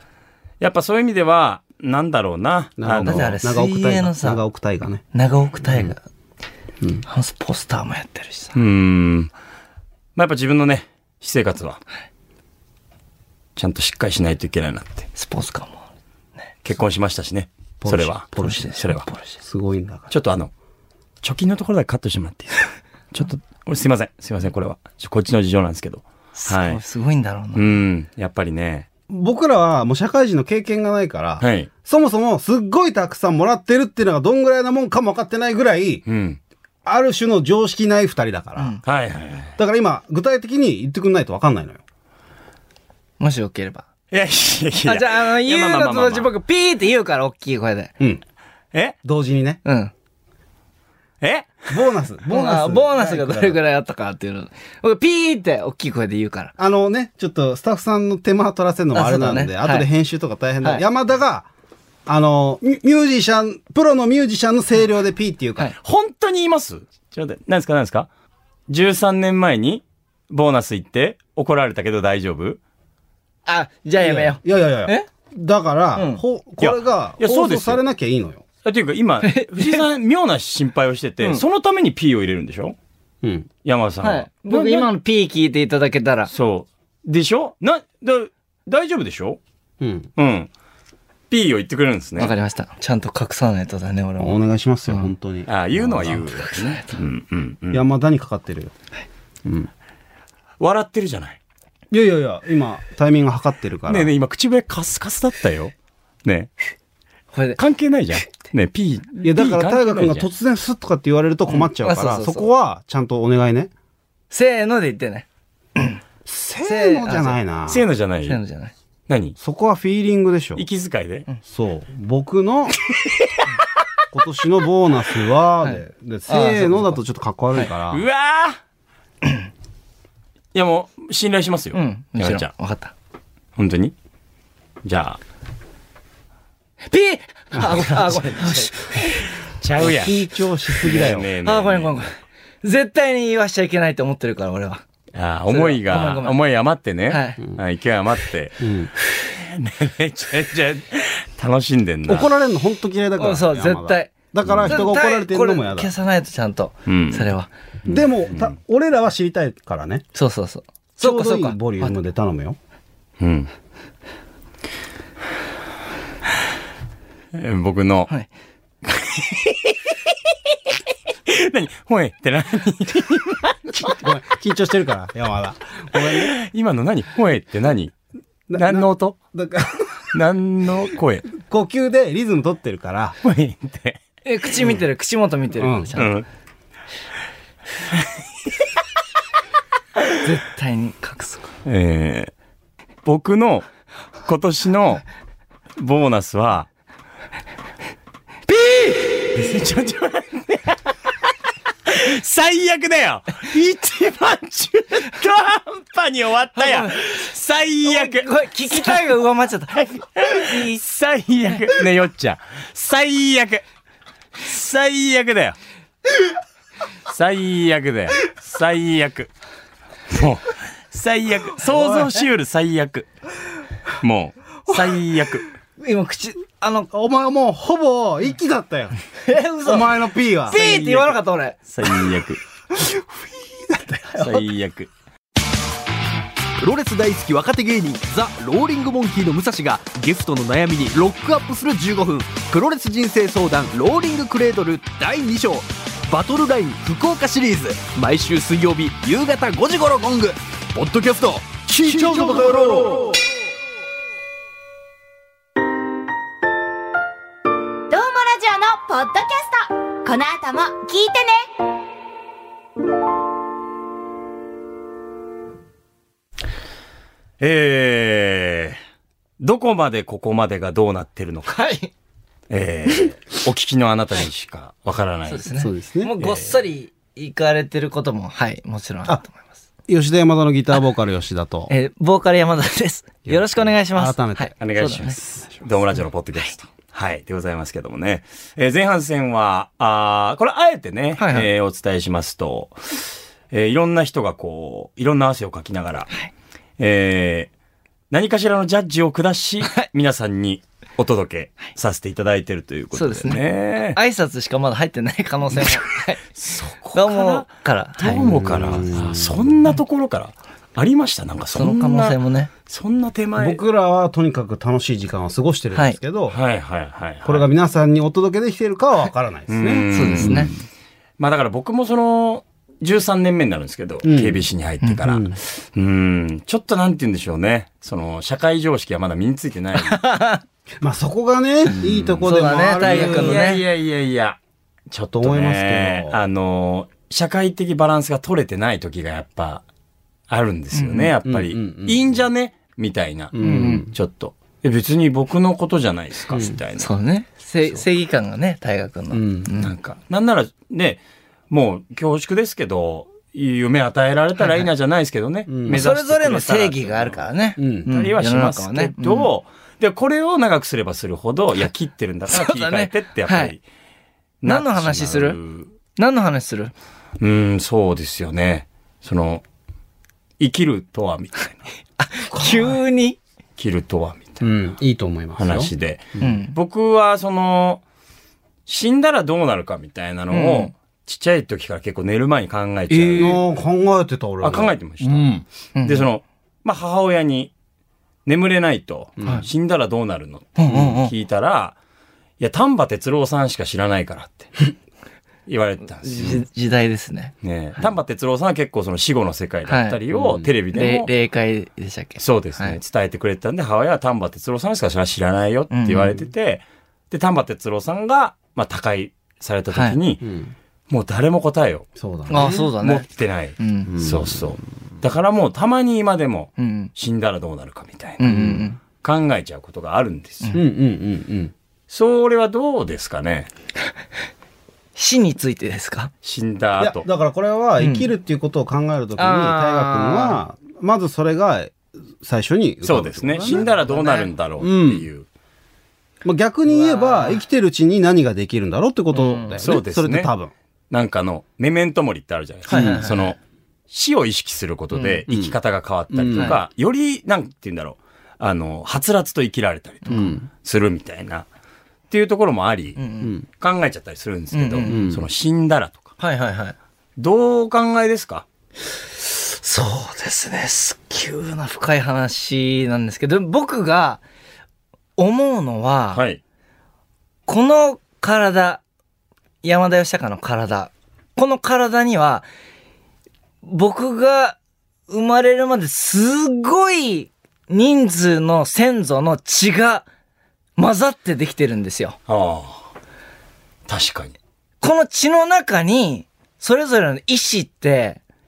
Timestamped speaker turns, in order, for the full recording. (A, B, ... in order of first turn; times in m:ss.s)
0:00.6-0:03.3 A
0:02.8-0:05.0 B
0:03.0-0:04.4 C
0:05.1-0:06.0 C
0:07.0-0:08.6 C
0:08.5-0:09.3 A
0:10.2-0:11.8 A
0:13.6-0:15.1 A
0:15.2-0:15.8 C
0:16.6-0:19.0 A
0:17.8-0:18.7 B
0:18.4-0:19.3 C
0:19.4-0:20.1 B
0:20.1-0:20.5 A
0:21.2-0:26.8 A
0:26.4-0:27.7 C
0:27.5-0:28.9 A
0:29.1-0:36.0 B
0:31.4-0:31.7 A
0:36.0-0:36.4 A
0:36.8-0:38.8 B
0:38.8-0:39.5 A
0:39.6-0:41.8 B
0:43.2-0:43.8 C
0:44.1-0:46.3 A
0:44.8-0:47.9 C
0:49.0-0:49.6 B
0:49.6-0:49.9 C
0:51.2-0:51.7 A
0:51.7-0:53.6 B
0:52.3-0:56.5 C
0:56.6-1:01.5 B
0:58.9-0:59.9 C
1:02.1-1:05.7 B
1:05.8-1:08.1 A
1:08.7-1:12.6 A
1:13.4-1:15.0 C
1:14.0-1:18.4 B
1:16.0-1:16.2 C
1:16.6-1:17.8 A
1:18.6-1:22.8 A
1:19.2-1:19.8 C
1:23.2-1:23.5 B
1:23.6-1:24.9 A
1:24.0-1:26.3 C
1:26.3-1:29.4 A
1:29.8-1:30.1 B
1:30.2-1:30.5 A
1:31.3-1:32.3 A
1:32.2-1:35.1 C
1:34.2-1:36.3 B
1:35.5-1:37.8 A
1:36.3-1:36.8 C
1:37.7-1:38.7 B
1:39.4-1:39.7 B
1:40.6-1:41.4 A
1:41.9-1:44.1 B
1:43.9-1:46.5 A
1:47.3-1:47.6 C
1:47.6-1:50.3 A
1:49.2-1:53.7 B
1:51.5-1:52.5 C
1:54.3-1:55.2 C
1:56.2-1:57.8 B
1:56.6-1:57.4 C
1:57.7-1:58.4 A
1:58.2-1:58.7 C
1:59.1-1:59.4 A
1:59.4-2:00.6 B
2:00.6-2:01.3 A
2:01.4-2:02.8 B
2:04.1-2:08.0 B
2:05.6-2:07.0 C
2:07.9-2:08.6 A
2:10.5-2:12.5 A
2:11.7-2:12.9 C
2:13.6-2:13.9 A
2:14.8-2:15.2 A
2:16.9-2:18.7 C
2:17.9-2:18.2 A
2:19.0-2:20.2 A
2:19.8-2:21.3 B
2:20.8-2:22.1 A
2:21.4-2:22.1 C
2:22.6-2:24.8 C
2:25.1-2:32.3 A
2:25.5-2:26.4 C
2:27.1-2:27.4 C
2:28.6-2:28.9 B
2:32.0-2:35.9 B
2:33.2-2:34.1 C
2:34.4-2:34.8 A
2:34.7-2:37.5 C
2:36.9-2:37.3 A
2:37.8-2:38.5 A
2:37.8-2:40.0 B
2:40.1-2:41.9 C
2:41.0-2:42.6 B
2:43.2-2:43.5 A
2:47.3-2:48.1 A
2:48.8-2:49.8 A
2:51.3-2:54.0 A
2:53.8-2:56.3 B
2:56.0-2:57.9 A
2:58.5-2:59.9 B
2:58.5-2:59.2 A
3:00.1-3:01.3 A
3:01.3-3:03.2 B
3:03.2-3:04.0 A
3:04.2-3:06.1 C
3:05.6-3:05.9 B
3:06.0-3:06.2 A
3:10.2-3:11.5 C
3:11.6-3:12.3 A
3:13.0-3:13.7 A
3:14.2-3:15.0 A
3:15.8-3:16.7 A
3:18.5-3:19.3 C
3:19.3-3:20.8 A
3:21.9-3:29.1 A
3:26.6-3:27.0 C
3:27.8-3:30.8 C
3:29.7-3:33.6 A
3:34.4-3:35.6 A
3:37.1-3:39.3 A
3:40.1-3:43.1 A
3:44.0-3:45.4 A
3:45.8-3:46.9 C
3:46.9-3:49.0 B
3:49.2-3:49.9 C
3:49.6-3:50.6 B
3:50.5-3:51.6 C
3:50.5-3:52.4 A
3:52.8-3:54.4 B
3:54.1-3:54.9 A
3:56.6-4:13.1 D
4:11.8-4:12.4 B
4:17.9-4:21.5 E
4:27.4-4:28.8 A
4:29.4-4:31.6 A
4:31.5-4:31.9 C
4:32.5-4:35.4 A
4:35.2-4:39.4 C
4:35.5-4:36.1 B
4:36.2-4:36.5 A
4:39.9-4:41.7 B
4:41.7-4:45.2 C
4:43.2-4:44.5 B
4:44.6-4:56.1 A
4:51.2-4:51.5 C
4:56.8-4:57.5 A
4:58.1-5:04.0 A
5:02.9-5:03.4 C
5:03.9-5:06.2 C
5:06.3-5:07.4 A
5:06.9-5:08.3 C
5:08.0-5:13.6 A
5:08.1-5:09.6 B
5:11.5-5:12.5 C
5:13.4-5:16.4 B
5:16.3-5:17.4 A
5:17.2-5:20.5 B
5:19.5-5:20.6 A
5:19.9-5:20.5 C
5:21.2-5:30.0 A
5:24.0-5:24.4 B
5:25.0-5:25.4 B
5:29.8-5:30.4 C
5:30.8-5:33.5 B
5:31.8-5:32.2 A
5:32.2-5:33.6 C
5:32.8-5:34.4 A
5:34.9-5:39.6 A
5:35.1-5:36.2 B
5:40.3-5:46.9 A
5:40.7-5:41.1 C
5:41.2-5:42.2 B
5:43.3-5:43.9 B
5:43.4-5:43.8 C
5:46.8-5:49.7 C
5:49.1-5:49.5 B
5:49.6-5:57.2 A
5:54.4-5:54.7 C
5:55.5-5:55.8 B
5:55.7-5:59.3 C
5:57.6-5:57.9 B
5:57.8-6:03.6 A
6:02.3-6:03.5 C
6:04.4-6:05.7 A
6:04.4-6:05.4 C
6:06.0-6:06.7 C
6:07.2-6:09.4 A
6:10.4-6:11.7 A
6:12.0-6:13.2 C
6:12.3-6:12.7 B
6:13.6-6:14.5 A
6:14.4-6:16.3 B
6:15.4-6:17.8 A
6:16.2-6:16.5 C
6:18.7-6:23.4 A
6:20.3-6:20.7 C
6:22.9-6:23.4 C
6:23.1-6:25.4 B
6:24.4-6:27.5 A
6:25.8-6:26.0 C
6:28.2-6:31.8 A
6:29.2-6:29.4 B
6:30.6-6:31.1 C
6:32.4-6:34.6 A
6:35.5-6:36.4 A
6:36.0-6:37.3 C
6:37.4-6:41.1 A
6:39.7-6:40.0 C
6:40.1-6:40.5 B
6:40.7-6:42.8 C
6:42.2-6:50.2 A
6:45.7-6:46.2 C
6:49.7-6:50.0 C
6:50.2-6:50.5 B
6:50.9-7:00.6 A
6:52.0-6:52.7 B
6:52.3-6:53.1 C
6:53.6-6:53.9 C
6:53.9-6:54.5 B
6:56.6-6:56.9 C
6:58.2-6:58.8 C
6:58.2-6:58.6 B
7:00.5-7:01.5 B
7:01.9-7:03.5 A
7:05.0-7:06.1 C
7:06.2-7:07.0 A
7:06.8-7:13.7 B
7:07.8-7:08.1 C
7:09.2-7:10.4 C
7:12.8-7:15.2 A
7:13.4-7:14.3 C
7:14.6-7:15.1 B
7:16.2-7:20.5 B
7:16.6-7:17.4 C
7:19.1-7:19.6 C
7:19.6-7:20.3 A
7:20.9-7:23.4 A
7:22.7-7:23.3 C
7:22.7-7:23.0 B
7:23.9-7:31.4 A
7:24.9-7:25.2 C
7:25.3-7:25.6 B
7:26.1-7:26.6 B
7:30.0-7:30.3 C
7:30.1-7:30.5 B
7:32.1-7:33.0 A
7:33.0-7:33.3 C
7:33.5-7:36.1 A
7:34.5-7:35.0 C
7:34.8-7:35.2 B
7:36.2-7:36.7 C
7:37.2-7:38.4 A
7:39.2-7:44.2 C
7:45.2-7:46.2 C
7:46.1-7:46.4 A
7:47.5-7:48.8 C
7:49.6-7:52.5 C
7:53.6-7:54.6 C
7:55.1-8:00.0 C
8:00.8-8:02.2 C
8:02.3-8:02.9 A
8:03.9-8:04.3 A
8:04.8-8:08.2 C